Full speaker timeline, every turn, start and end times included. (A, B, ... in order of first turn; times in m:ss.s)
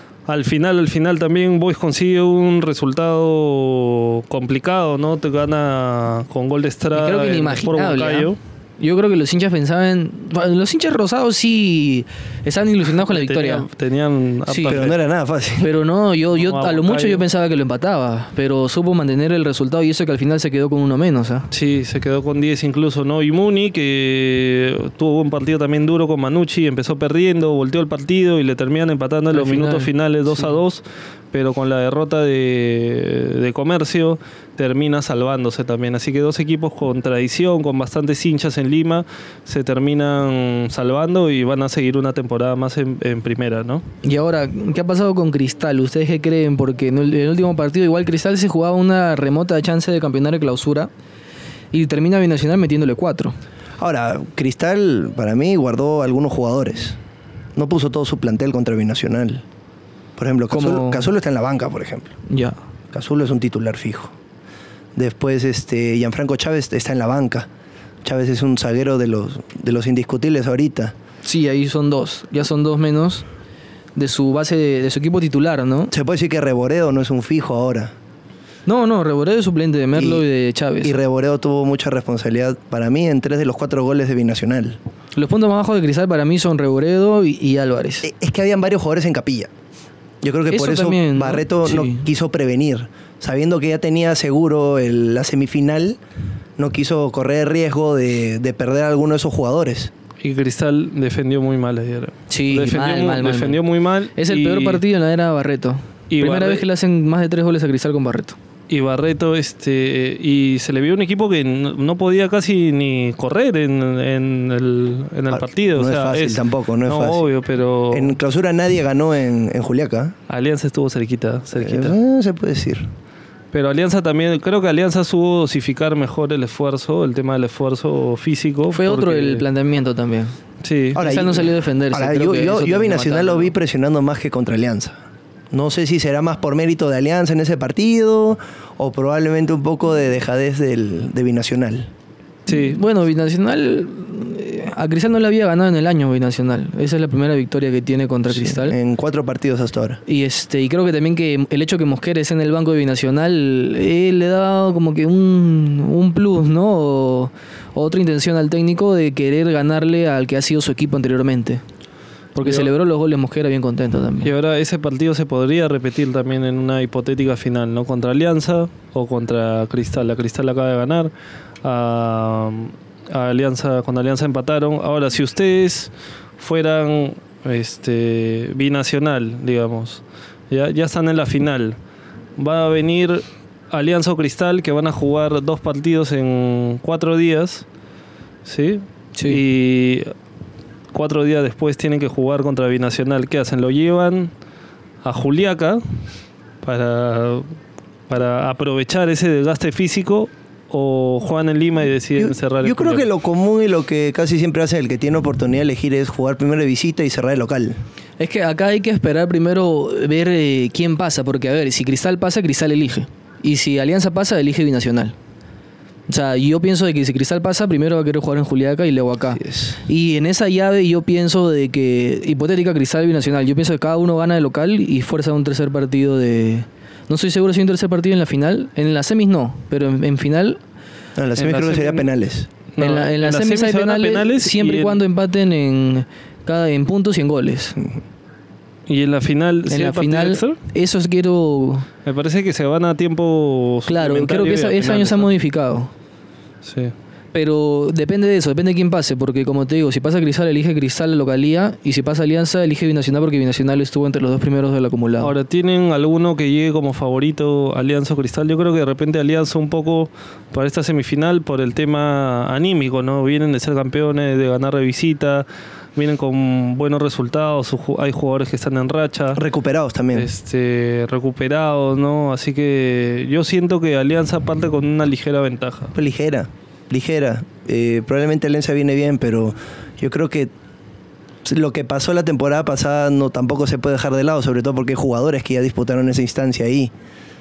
0:00.3-0:08.4 A
0:06.9-0:13.6 B
0:13.1-0:15.0 A
0:14.5-0:14.8 B
0:14.7-0:15.7 C
0:15.6-0:21.5 B
0:16.4-0:17.2 A
0:21.5-0:43.8 A
0:29.3-0:30.6 B
0:44.0-0:50.9 B
0:51.7-0:53.4 B
0:53.8-0:57.0 C
0:57.6-0:59.4 C
1:00.2-1:02.2 C
1:00.5-1:01.1 B
1:02.3-1:02.6 B
1:02.9-1:04.1 C
1:05.0-1:07.5 C
1:08.0-1:10.9 C
1:11.2-1:13.3 B
1:14.0-1:15.9 B
1:15.9-1:17.9 C
1:18.6-1:20.9 B
1:19.9-1:20.2 C
1:20.8-1:24.8 C
1:25.2-1:28.0 B
1:28.0-1:29.5 C
1:30.2-1:36.0 C
1:30.5-1:32.0 B
1:36.6-1:39.9 C
1:40.2-1:44.8 A
1:42.3-1:43.6 B
1:44.2-1:48.4 B
1:46.1-1:46.6 A
1:48.7-1:58.2 A
1:55.3-1:57.2 C
1:57.9-2:00.1 C
2:00.3-2:02.0 A
2:01.5-2:02.9 C
2:03.5-2:09.4 A
2:08.7-2:10.3 B
2:10.6-2:11.0 A
2:10.9-2:15.0 C
2:11.0-2:13.5 B
2:15.5-2:21.9 C
2:22.5-2:28.8 B
2:22.5-2:22.8 A
2:28.3-2:30.0 C
2:30.1-2:41.6 B
2:42.3-2:44.3 B
2:42.4-2:42.7 A
2:44.2-2:51.1 A
2:51.6-3:01.8 A
3:02.4-3:07.6 A
3:08.4-3:10.1 A
3:10.9-3:14.3 A
3:15.0-3:15.8 A
3:16.6-3:17.5 A
3:18.1-3:23.0 A
3:22.2-3:27.8 C
3:28.2-3:35.1 B
3:36.1-3:50.6 B
3:39.4-3:39.7 C
3:51.2-3:52.5 C
3:51.4-3:52.1 A
3:52.7-3:55.0 A
3:52.8-3:57.8 B
3:58.9-4:00.6 A
3:59.7-4:01.9 B
4:02.0-4:05.3 A
4:03.9-4:05.9 B
4:06.6-4:06.9 A
4:07.3-4:15.3 B
4:15.2-4:29.4 A
4:29.3-4:30.3 C
4:30.1-4:35.9 A
4:35.9-4:40.5 C
4:41.4-4:46.9 C